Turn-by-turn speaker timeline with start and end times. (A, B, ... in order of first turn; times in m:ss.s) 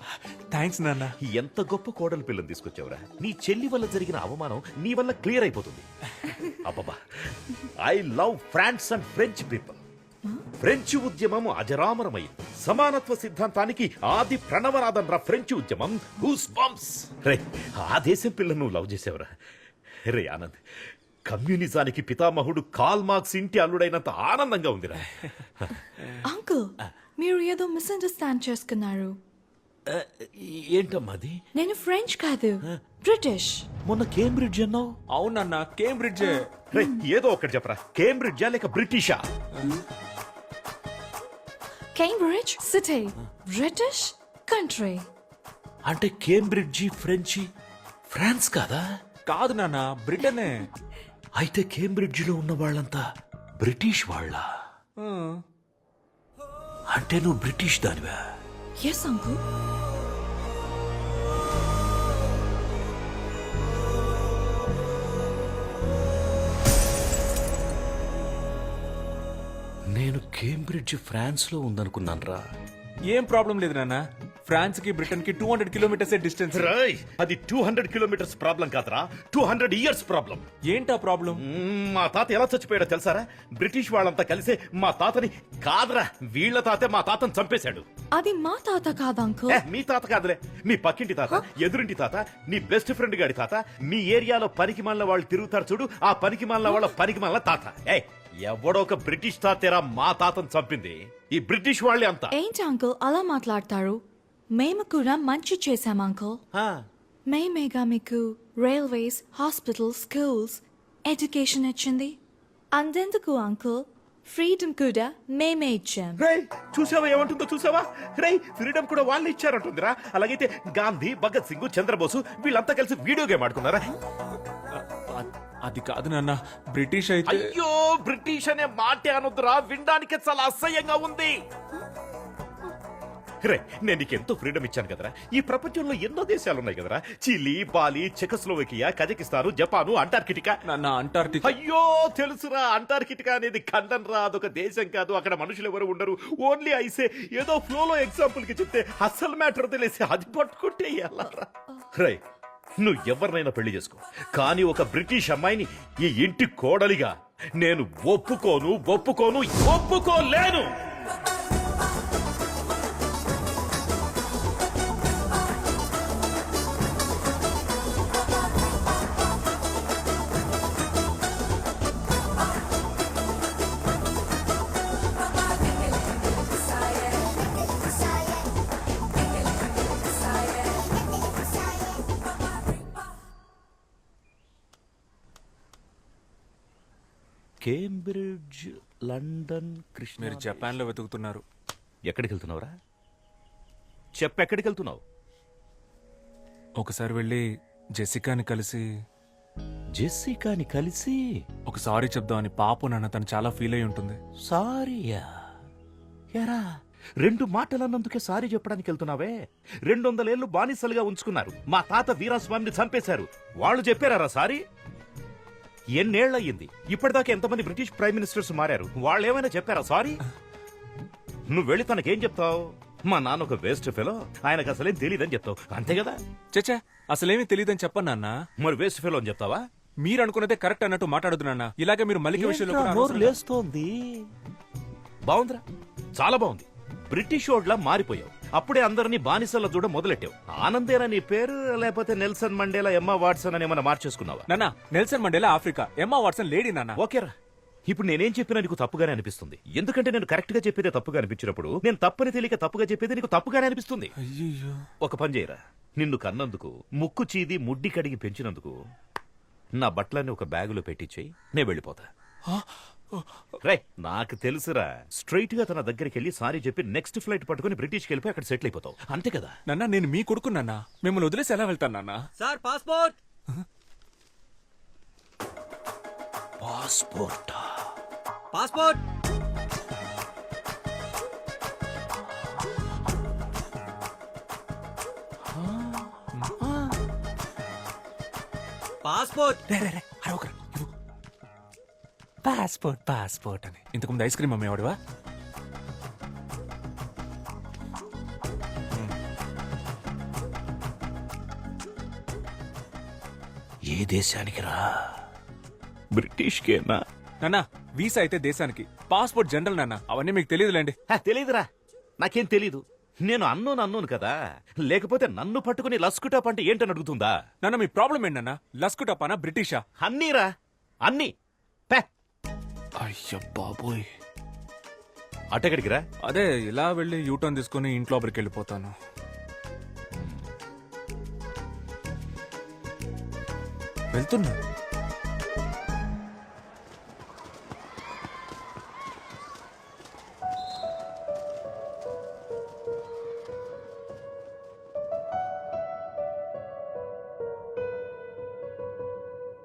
0:00.5-0:01.1 A
0:01.2-0:05.8 B
0:06.6-0:09.8 B
0:10.6-0:19.3 B
0:20.1-0:20.6 B
0:21.3-0:25.1 B
0:26.2-0:29.2 C
0:29.9-0:31.4 B
0:31.5-0:33.6 C
0:33.8-0:34.9 B
0:35.1-0:36.4 A
0:36.2-0:37.0 C
0:36.7-0:39.2 B
0:39.5-0:39.8 A
0:41.9-0:45.1 C
0:45.8-0:47.5 B
0:48.1-0:48.8 B
0:49.3-0:50.6 A
0:51.4-0:53.0 B
0:53.6-0:54.4 B
0:55.0-0:55.4 A
0:56.9-0:58.2 B
0:58.8-0:59.4 C
1:09.9-1:12.4 B
1:13.1-1:16.7 A
1:16.5-1:20.4 B
1:20.6-1:21.4 A
1:21.3-1:27.8 B
1:28.1-1:29.6 C
1:29.5-1:42.3 B
1:36.6-1:36.9 C
1:42.3-1:44.0 C
1:44.5-1:46.4 C
1:46.5-1:46.8 B
1:47.3-1:52.2 C
1:52.7-1:56.2 C
1:56.2-2:03.9 B
2:04.7-2:07.5 A
2:07.3-2:11.3 B
2:13.4-2:20.6 B
2:20.7-2:21.5 A
2:21.4-2:32.2 B
2:32.8-2:40.7 B
3:07.6-3:10.8 B
3:10.2-3:11.4 A
3:12.0-3:12.7 B
3:14.2-3:15.0 B
3:16.8-3:17.4 A
3:18.0-3:18.8 A
3:20.0-3:21.2 B
3:21.7-3:24.2 A
3:24.5-3:25.3 B
3:26.3-3:26.6 B
3:27.2-3:34.6 B
3:35.9-3:40.2 B
3:41.5-3:46.2 B
3:46.5-3:48.4 A
3:48.6-3:49.6 B
3:50.0-3:53.4 A
3:52.3-3:54.3 B
3:55.2-3:55.6 B
3:56.2-4:04.5 B
4:04.5-4:07.0 A
4:07.0-4:07.3 B
4:07.9-4:14.1 B
4:14.2-4:14.8 A
4:15.0-4:18.8 B
4:19.8-4:22.1 B
4:22.5-4:23.3 A
4:23.6-4:29.5 B
4:29.7-4:32.2 A
4:32.4-4:33.2 D
4:36.6-4:37.6 B
4:38.5-4:39.0 D
4:45.5-4:46.0 B
4:49.0-4:49.6 D
4:49.7-4:50.9 A
4:52.4-4:55.0 A
5:03.8-5:05.2 B
5:06.1-5:07.0 B
5:07.4-5:11.0 A
5:11.1-5:11.7 B
5:12.2-5:17.3 B
5:17.6-5:19.8 A
5:20.0-5:20.5 B
5:21.0-5:21.3 B
5:23.0-5:24.1 A
5:25.5-5:26.0 B
5:26.2-5:29.0 A
5:34.1-5:34.6 A